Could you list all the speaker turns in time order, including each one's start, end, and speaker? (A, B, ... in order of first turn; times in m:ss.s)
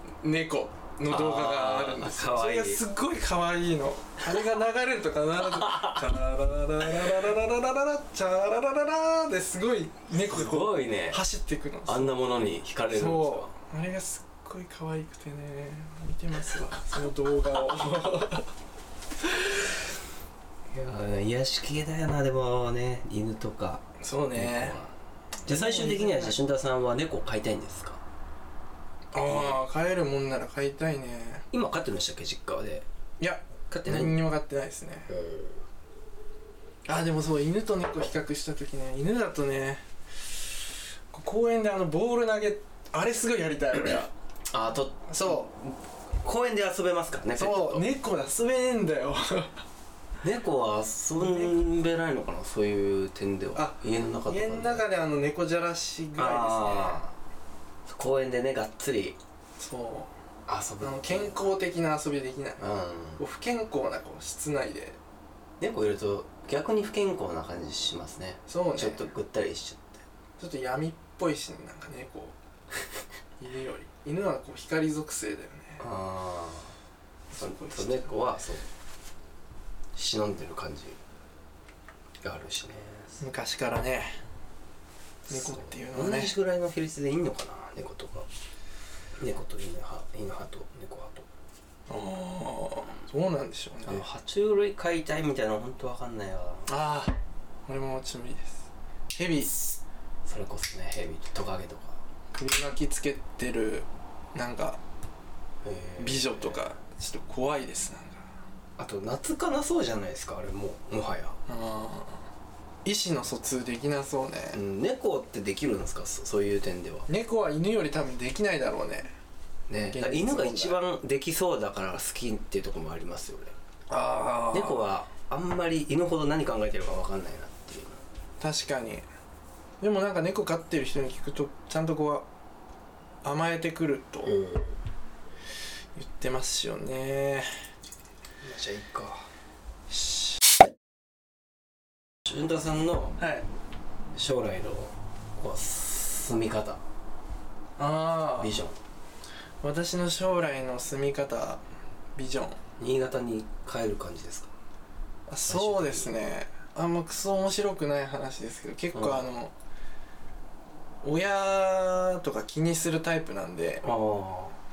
0:00.2-0:12.1 A
0:01.1-0:02.8 B
0:05.4-0:06.0 B
0:10.1-0:11.2 B
0:11.8-0:13.5 B
0:12.9-0:18.5 A
0:19.2-0:19.6 A
0:20.7-0:24.9 B
0:24.0-0:24.8 A
0:25.4-0:28.0 B
0:25.4-0:26.4 A
0:29.1-0:31.4 A
0:29.2-0:29.6 B
0:31.5-0:32.8 B
0:33.2-0:35.1 A
0:33.7-0:34.2 B
0:35.1-0:35.6 B
0:36.8-0:39.8 A
0:41.1-0:44.1 A
0:44.5-0:47.8 B
0:45.1-0:45.5 A
0:47.4-0:49.5 A
0:50.2-0:54.8 B
0:51.2-0:51.6 A
0:53.5-0:57.0 A
0:56.2-0:57.1 B
0:57.8-0:59.2 B
0:59.6-1:00.1 A
1:00.5-1:01.5 B
1:00.8-1:02.6 A
1:02.6-1:03.2 B
1:03.2-1:05.0 A
1:05.6-1:10.0 B
1:08.5-1:09.0 A
1:10.4-1:12.4 A
1:13.4-1:15.8 A
1:15.8-1:16.7 B
1:17.3-1:18.2 A
1:17.3-1:18.6 B
1:19.9-1:21.0 B
1:22.2-1:23.2 B
1:23.2-1:24.2 A
1:25.3-1:28.3 B
1:25.3-1:26.3 A
1:29.2-1:31.3 B
1:31.9-1:34.0 A
1:33.8-1:36.7 B
1:36.7-1:37.1 A
1:37.7-1:39.8 A
1:40.2-1:42.0 B
1:42.3-1:44.8 A
1:45.6-1:46.6 B
1:46.0-1:48.3 A
1:48.8-1:51.4 B
1:51.5-1:52.2 A
1:52.8-1:54.6 A
1:54.5-1:57.1 B
1:57.1-1:59.1 A
1:59.7-2:03.5 B
1:59.9-2:00.8 A
2:03.9-2:04.9 A
2:04.5-2:08.0 B
2:08.4-2:09.0 A
2:09.8-2:12.2 A
2:13.2-2:14.4 A
2:14.3-2:14.6 B
2:16.0-2:17.5 A
2:18.4-2:19.3 B
2:19.9-2:20.2 A
2:22.2-2:23.2 B
2:23.2-2:23.4 A
2:24.1-2:26.8 B
2:27.8-2:28.6 A
2:28.4-2:28.8 B
2:29.6-2:31.6 A
2:32.2-2:32.6 A
2:32.8-2:34.5 B
2:35.3-2:39.5 A
2:35.5-2:36.1 B
2:38.9-2:39.2 B
2:41.0-2:43.8 A
2:43.8-2:44.6 B